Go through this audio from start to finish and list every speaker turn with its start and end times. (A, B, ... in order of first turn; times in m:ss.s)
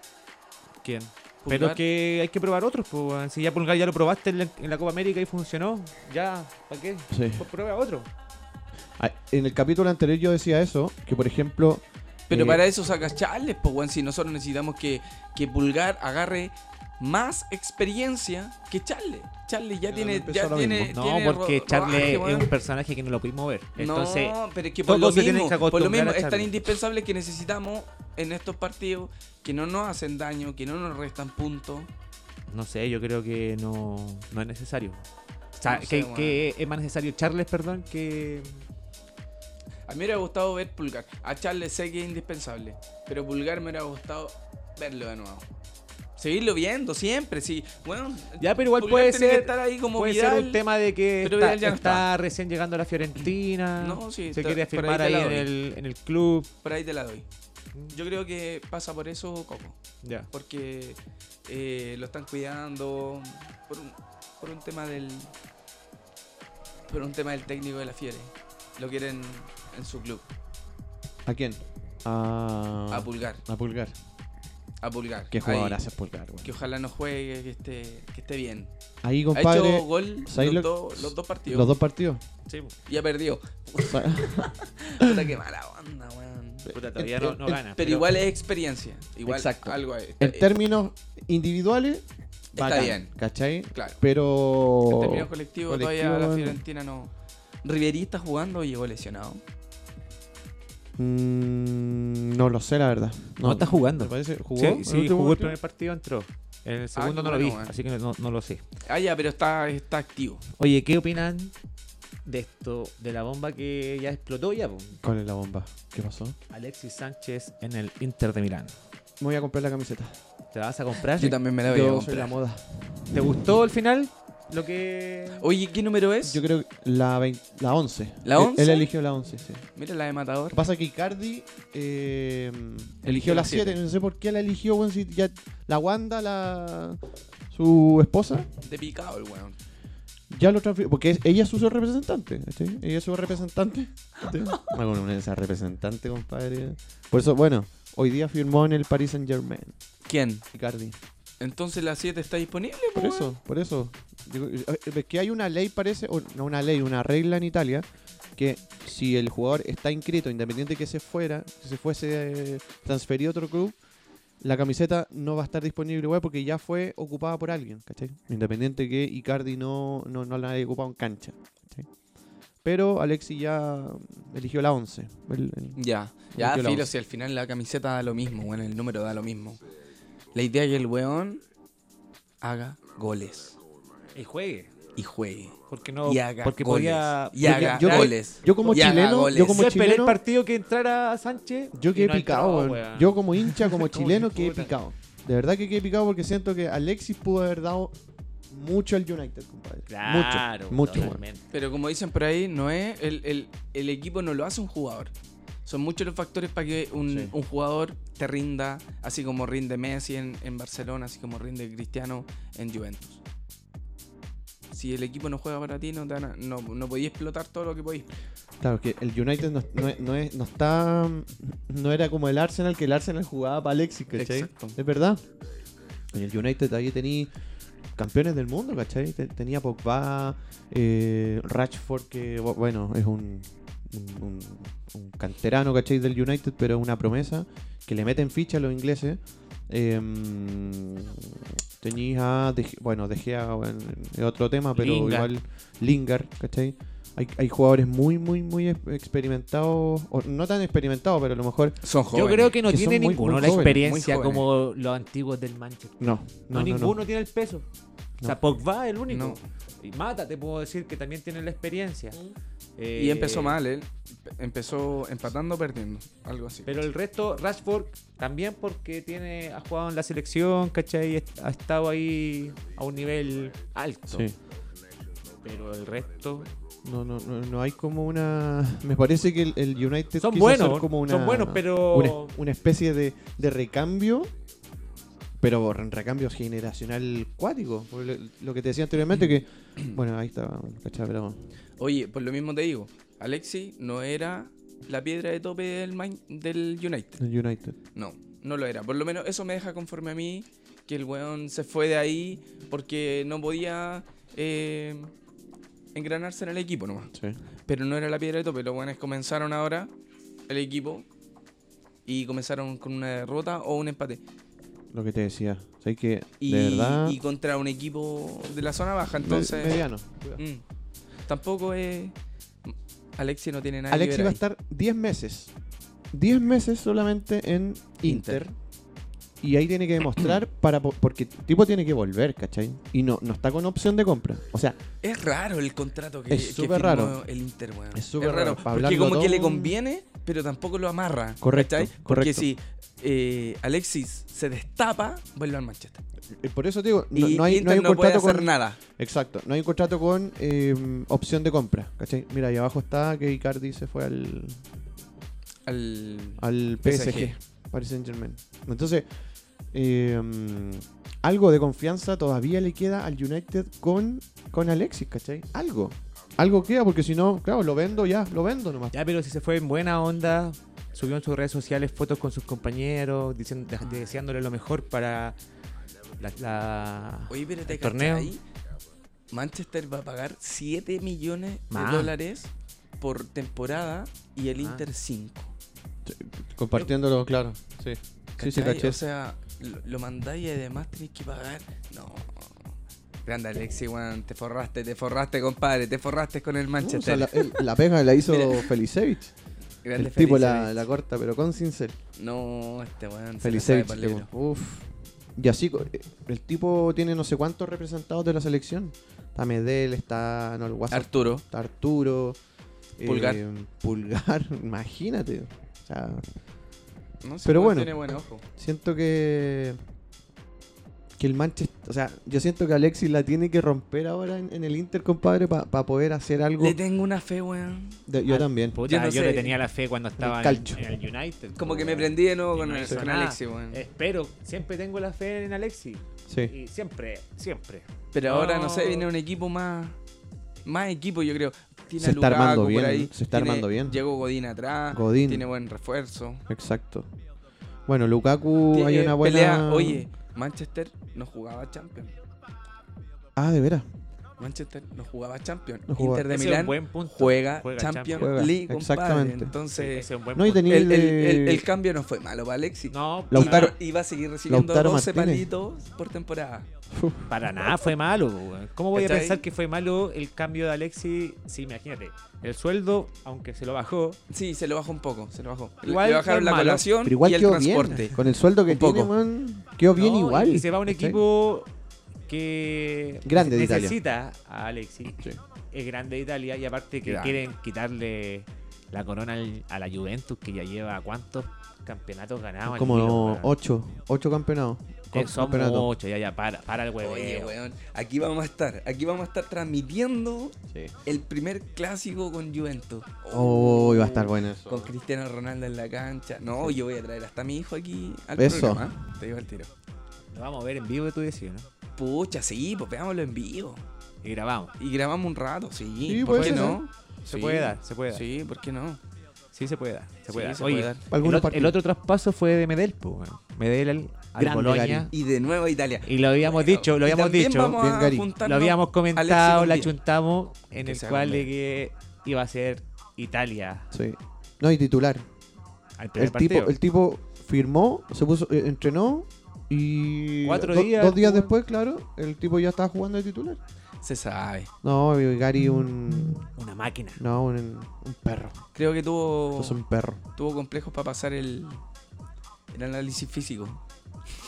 0:00.8-0:08.1 A
0:01.4-0:01.8 B
0:07.1-0:07.4 C
0:09.0-0:12.6 C
0:12.3-0:22.5 B
0:19.9-0:20.9 C
0:20.9-0:26.6 A
0:23.8-0:31.9 B
0:32.5-0:35.0 A
0:35.6-0:38.6 A
0:35.7-0:36.4 B
0:39.9-0:45.4 B
0:46.2-0:50.6 B
0:48.4-0:56.5 A
0:51.2-0:52.1 B
0:53.8-0:55.5 B
0:56.6-0:57.2 B
0:57.9-0:59.8 B
1:00.0-1:00.3 A
1:00.3-1:05.3 B
1:06.9-1:10.3 B
1:11.2-1:13.9 C
1:12.9-1:13.4 B
1:14.8-1:15.8 B
1:15.3-1:16.6 C
1:16.4-1:18.7 B
1:19.0-1:22.2 C
1:19.3-1:21.7 B
1:22.5-1:22.7 A
1:22.9-1:26.7 B
1:23.8-1:25.2 C
1:26.7-1:27.6 C
1:26.7-1:28.1 A
1:27.7-1:30.5 B
1:29.2-1:32.0 C
1:32.5-1:33.1 B
1:32.6-1:36.6 C
1:33.7-1:34.0 B
1:34.9-1:37.1 B
1:37.6-1:39.4 B
1:41.0-1:45.6 C
1:43.4-1:48.6 A
1:46.9-1:47.7 B
1:48.8-1:50.4 B
1:50.6-1:51.5 A
1:52.2-1:55.0 A
1:55.0-1:56.4 C
1:56.5-1:58.7 A
1:59.2-2:00.2 C
2:00.5-2:01.4 A
2:01.1-2:02.3 B
2:01.6-2:02.6 C
2:03.1-2:05.4 A
2:05.4-2:06.4 B
2:06.2-2:09.6 C
2:08.2-2:08.9 B
2:09.8-2:10.6 B
2:10.5-2:17.0 C
2:13.0-2:13.8 B
2:17.5-2:18.5 C
2:18.6-2:19.6 B
2:20.3-2:29.8 C
2:30.1-2:30.4 B
2:30.5-2:31.0 C
2:31.4-2:33.3 B
2:33.0-2:37.8 C
2:38.4-2:43.8 C
2:44.4-2:51.9 C
2:52.6-2:55.8 C
2:55.8-2:59.6 B
2:56.3-2:56.9 C
3:00.3-3:01.4 B
3:02.4-3:03.6 B
3:04.1-3:04.7 A
3:05.0-3:09.7 B
3:05.7-3:08.7 A
3:07.4-3:10.2 C
3:09.5-3:14.7 A
3:11.7-3:17.9 C
3:18.5-3:21.2 C
3:19.9-3:21.5 A
3:21.5-3:25.1 B
3:25.6-3:33.2 B
3:27.1-3:27.3 C
3:34.7-3:38.1 B
3:38.6-3:45.2 C
3:44.2-3:44.8 B
3:46.1-3:47.3 C
3:48.0-4:11.8 C
4:04.8-4:05.3 A
4:11.8-4:12.6 B
4:12.1-4:17.6 A
4:12.6-4:13.8 C
4:13.4-4:14.4 B
4:16.0-4:17.0 C
4:18.2-4:22.2 A
4:19.1-4:19.4 B
4:22.8-4:23.6 A
4:22.9-4:26.8 B
4:26.6-4:34.3 A
4:34.1-4:34.4 C
4:35.4-4:36.5 A
4:36.8-4:44.3 C
4:40.2-4:42.3 A
4:45.4-4:51.4 C
4:51.8-4:57.2 B
4:57.2-4:57.8 C
4:57.9-5:05.1 B
5:05.9-5:07.1 B
5:07.7-5:09.9 B
5:10.5-5:11.0 B
5:12.0-5:14.2 B
5:14.9-5:17.2 C
5:16.4-5:19.8 B
5:19.1-5:20.4 C
5:20.4-5:20.6 B
5:21.3-5:22.1 B
5:22.6-5:24.4 B
5:23.9-5:25.5 C
5:26.1-5:28.5 C
5:28.0-5:28.4 B
5:29.4-5:34.8 C
5:35.0-5:46.0 B
5:36.3-5:37.2 C
5:37.9-5:39.8 C
5:41.4-5:42.5 C
5:46.4-5:54.6 C
5:47.1-5:48.8 B
5:55.6-5:57.3 B
5:56.4-5:59.0 C
5:59.7-6:08.9 C
6:08.9-6:15.4 A
6:16.2-6:18.3 A
6:17.3-6:18.4 B
6:19.3-6:22.5 B
6:21.7-6:22.1 A
6:23.0-6:25.5 B
6:26.0-6:29.0 C
6:28.4-6:32.7 B
6:33.2-6:37.7 B
6:36.8-6:39.3 C
6:38.3-6:38.7 B
6:39.8-6:40.8 B
6:40.0-6:42.0 C
6:42.2-6:44.3 B
6:43.4-6:52.4 C
6:50.9-6:51.4 B
6:53.0-6:56.2 C
6:53.0-6:53.4 B
6:57.2-6:58.4 B
6:57.4-6:59.8 C
7:01.2-7:06.8 C
7:06.6-7:08.0 B
7:08.1-7:08.8 C
7:08.3-7:19.1 A
7:08.9-7:09.6 B
7:10.2-7:10.8 C
7:11.6-7:13.8 B
7:16.3-7:16.5 C
7:18.1-7:20.0 B
7:20.6-7:26.4 B
7:22.0-7:24.0 C
7:24.9-7:25.5 C
7:26.5-7:27.1 C
7:27.9-7:30.1 C
7:28.7-7:32.1 B
7:33.4-7:33.8 C
7:34.4-7:40.1 B
7:35.9-7:36.3 C
7:36.3-7:38.4 A
7:38.1-7:39.5 C
7:39.8-7:40.7 A
7:40.3-7:41.7 C
7:40.6-7:46.7 B
7:42.9-7:43.7 A
7:43.3-7:43.8 C
7:44.5-7:45.5 C
7:46.9-7:47.3 C
7:47.3-7:54.2 A
7:48.9-7:49.4 B
7:54.3-7:59.1 B
7:55.8-7:56.9 A
7:57.0-8:01.2 C
7:59.9-8:01.7 A
8:02.3-8:13.5 A
8:03.2-8:04.0 C
8:07.0-8:07.4 B
8:12.6-8:15.9 C
8:15.1-8:17.6 A
8:17.0-8:29.7 B
8:23.3-8:24.9 C
8:28.4-8:29.0 C
8:30.3-8:31.7 A
8:32.0-8:33.8 B
8:34.2-8:34.7 A
8:34.8-8:39.0 B
8:36.0-8:36.8 C
8:36.2-8:38.2 A
8:39.5-8:45.1 A
8:40.3-8:41.0 B
8:41.1-8:41.8 C
8:44.4-8:45.1 C
8:45.1-8:49.9 B
8:46.0-8:47.8 A
8:47.7-8:48.3 C
8:48.4-8:53.9 A
8:50.8-8:51.5 B
8:53.9-8:55.2 C
8:56.0-8:56.7 A
8:56.2-9:03.6 C
9:00.4-9:01.5 A
9:04.0-9:04.7 B
9:04.8-9:06.4 C
9:06.6-9:07.2 A
9:07.2-9:08.6 C
9:08.7-9:09.8 B
9:09.6-9:10.2 C
9:10.4-9:11.8 B
9:12.7-9:13.8 B